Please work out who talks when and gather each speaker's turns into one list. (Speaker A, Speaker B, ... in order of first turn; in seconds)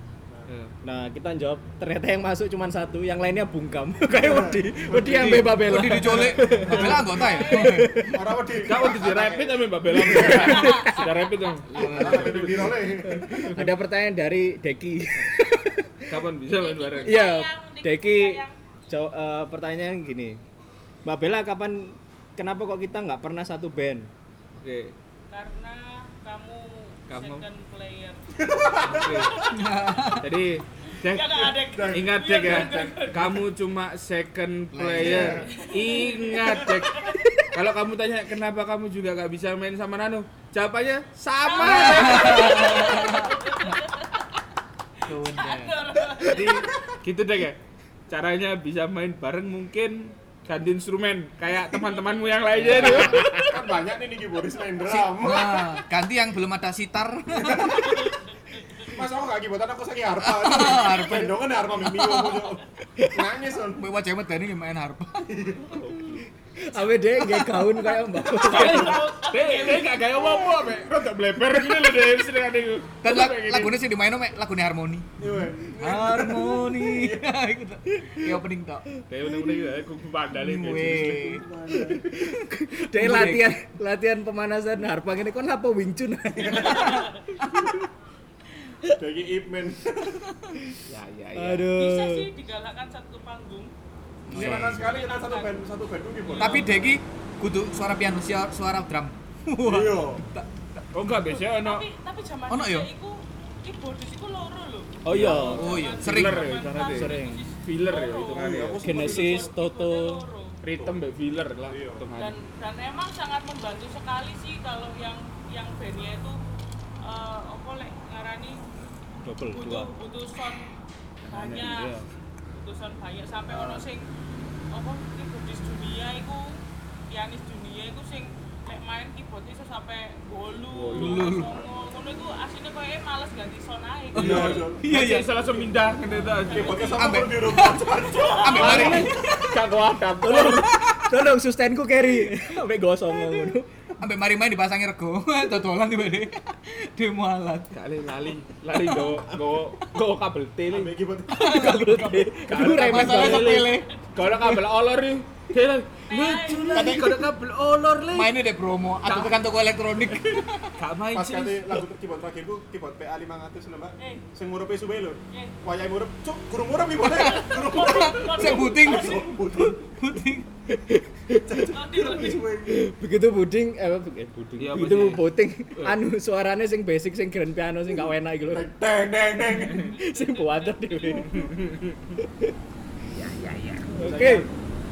Speaker A: 0.5-0.8, 5.2-5.5, 8.6-12.7, 16.1-17.2, 24.6-24.9, 27.1-27.4, 28.8-29.4, 30.2-43.0, 46.2-53.5, 65.8-66.2, 68.4-73.8, 79.1-81.4, 90.9-91.7, 100.9-101.9, 105.1-109.1, 110.6-112.4, 121.3-122.1, 123.5-123.8, 130.7-131.3, 134.2-136.9, 138.7-140.6, 147.7-150.9, 152.4-158.4, 159.0-159.4, 160.0-161.7, 174.6-176.0, 181.3-182.1, 183.1-183.9
Speaker B: 0.8-8.2, 10.0-11.1, 11.9-16.2, 17.0-20.4, 21.1-24.1, 52.6-53.4, 66.6-69.0, 77.9-78.4, 79.2-79.7, 81.7-87.8, 91.3-92.3, 105.0-105.8, 106.8-107.5, 108.8-110.2, 119.2-119.9, 138.6-143.7, 151.3-153.8, 170.7-178.7, 179.5-181.5, 182.2-182.6, 183.9-184.5
Speaker C: 4.1-5.7, 6.7-7.0, 8.0-10.7, 11.7-13.7, 28.4-29.4, 31.7-33.5, 35.0-35.5, 52.6-55.8, 57.3-58.0, 58.8-63.9, 65.3-66.0, 75.2-77.3, 80.6-82.1, 86.4-87.0, 88.9-90.3, 94.3-96.9, 99.6-100.3, 108.3-109.5, 110.8-111.0, 111.7-112.1, 134.2-135.7, 136.5-139.6, 150.7-152.0, 161.1-170.0, 171.3-172.9, 178.5-179.9, 184.0-184.5
Speaker D: 5.4-8.1, 11.8-12.5, 29.5-30.3, 34.7-35.4, 41.6-43.3, 45.1-45.9, 54.8-58.0, 60.2-62.5, 63.8-65.3, 73.0-75.1, 75.7-78.9, 80.3-81.4, 82.9-83.5, 94.3-94.9, 96.4-100.5, 102.5-102.9, 105.3-106.6, 131.0-131.6, 134.2-135.3, 137.0-139.2, 140.4-141.1, 144.0-147.7, 148.9-149.1, 151.3-153.9, 156.7-157.3, 158.1-160.8, 167.2-170.5
Speaker E: 7.1-7.9, 10.2-11.6, 16.5-18.6, 25.3-30.2, 30.9-33.4, 35.4-37.3, 41.4-44.4, 45.0-46.7, 51.9-52.3, 57.6-59.0, 68.3-70.1, 86.4-87.2, 91.7-93.7, 94.5-95.7, 96.2-96.9, 101.4-110.6, 112.2-116.4, 117.0-118.6, 119.5-120.7, 121.3-121.9, 122.5-124.0, 124.7-134.7, 136.0-139.1, 153.8-154.1, 156.1-157.0, 164.0-164.3, 165.3-165.6, 167.3-169.3, 171.7-172.5, 179.6-181.8